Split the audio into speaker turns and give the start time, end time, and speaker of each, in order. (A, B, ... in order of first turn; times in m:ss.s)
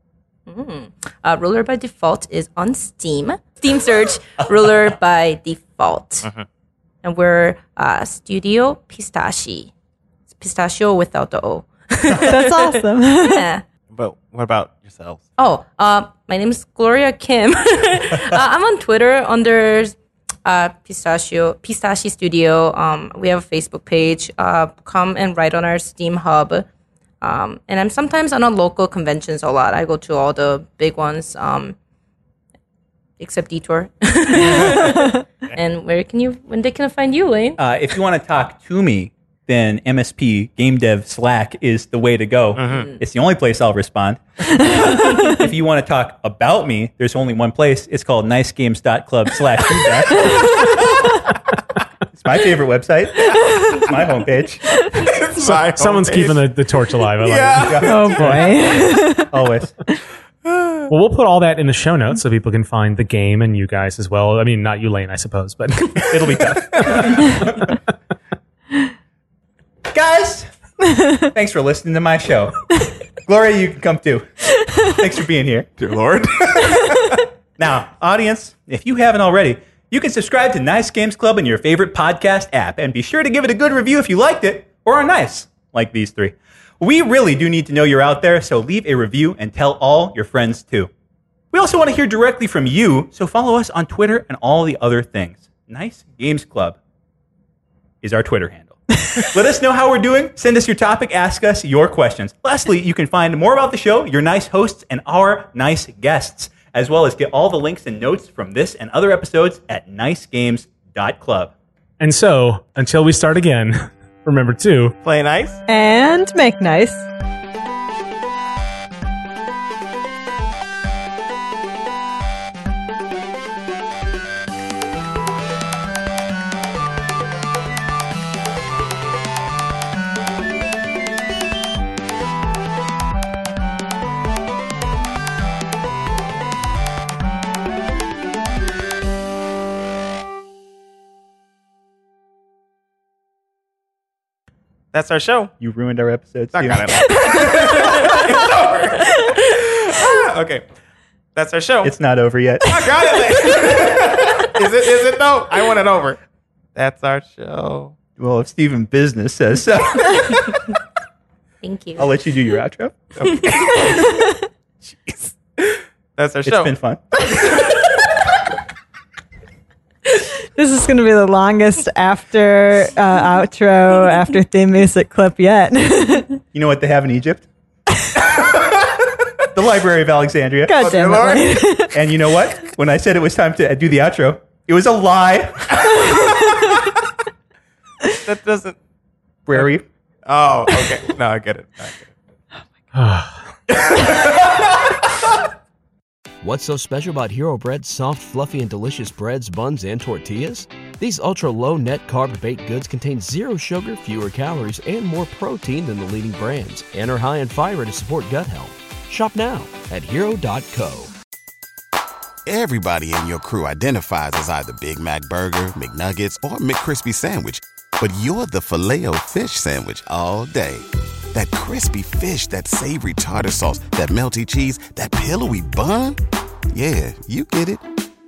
0:00.5-0:06.3 A
0:04.4-0:04.9 B
0:07.0-0:09.7 A
0:10.3-0:13.6 A
0:12.2-0:13.5 C
0:13.9-0:15.2 D
0:15.4-0:26.7 A
0:27.2-0:31.8 A
0:33.2-0:37.6 A
0:34.5-0:34.7 D
0:34.6-0:35.2 C
0:37.6-0:50.7 B
0:42.6-0:42.9 D
0:42.7-0:43.0 A
0:44.8-0:45.4 C
0:50.2-0:51.0 C
0:52.2-0:54.6 B
0:53.3-0:53.9 C
0:54.9-0:56.4 D
0:55.4-0:58.5 E
0:57.2-0:58.8 D
0:57.6-0:57.9 B
0:57.8-0:59.3 C
0:59.3-0:59.8 B
1:00.4-1:00.9 D
1:00.9-1:07.7 E
1:06.1-1:07.7 B
1:09.9-1:10.5 B
1:10.9-1:11.3 C
1:11.1-1:15.7 B
1:15.8-1:17.2 D
1:17.6-1:30.9 B
1:31.5-1:36.8 B
1:38.0-1:51.5 B
1:52.0-1:55.0 E
1:55.0-1:55.6 D
1:55.7-1:57.1 C
2:24.9-2:25.5 D
2:25.6-2:27.1 B
2:26.5-2:30.7 D
2:31.4-2:31.9 D
2:31.8-2:34.1 B
2:32.6-2:36.2 D
2:36.8-2:37.9 D
2:38.2-2:40.6 B
2:41.6-2:42.1 A
2:42.0-2:43.1 B
2:43.2-2:44.2 D
2:43.9-2:44.3 C
2:44.8-2:47.8 D
2:46.4-2:47.9 B
2:50.6-2:56.4 C
2:56.5-2:57.5 B
2:58.2-3:00.9 B
3:00.7-3:02.0 C
3:00.8-3:01.7 D
3:01.9-3:06.2 B
3:06.1-3:06.6 C
3:08.1-3:08.8 D
3:09.5-3:09.9 B
3:10.3-3:12.1 D
3:13.0-3:13.5 E
3:13.7-3:14.9 D
3:16.4-3:31.1 F
3:32.5-3:46.2 G
3:46.7-3:47.8 G